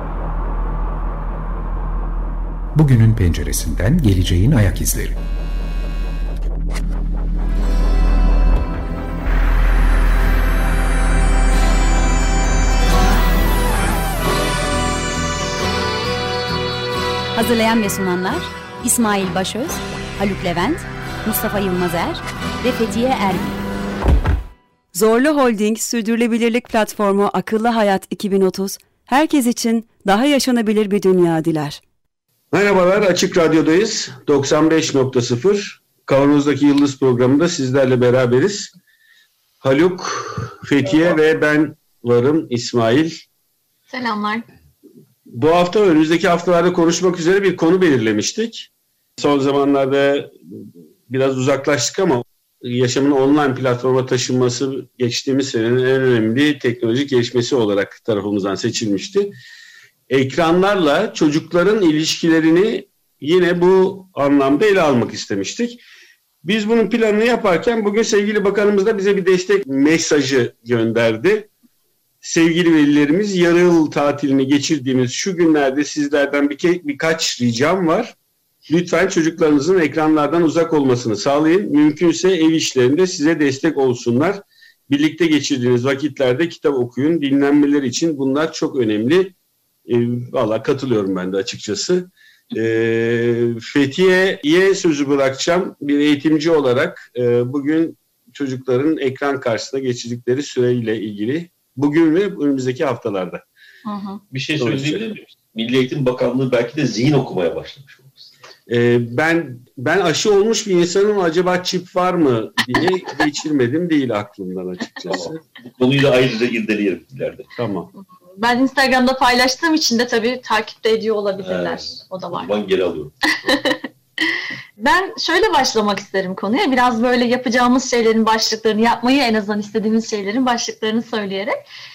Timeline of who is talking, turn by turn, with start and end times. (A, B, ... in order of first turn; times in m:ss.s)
0:02.7-0:05.2 A
0:17.3-0:23.6 B
0:24.9-0:31.8 C
0:32.5-0:38.7 D
0:39.6-0:43.2 D
0:43.9-0:44.4 E
0:45.3-0:59.3 D
1:00.1-1:05.8 D
1:06.4-1:11.5 D
1:12.2-1:18.1 D
1:18.7-1:29.3 D
1:29.8-1:43.4 D
1:43.8-1:44.2 E
1:44.3-1:48.2 F
1:44.6-1:45.0 D
1:48.7-1:55.4 D
1:55.1-1:57.5 F
1:57.6-1:57.9 D
1:58.4-2:02.5 E
2:01.4-2:03.1 F
2:03.4-2:03.8 E
2:04.8-2:11.6 E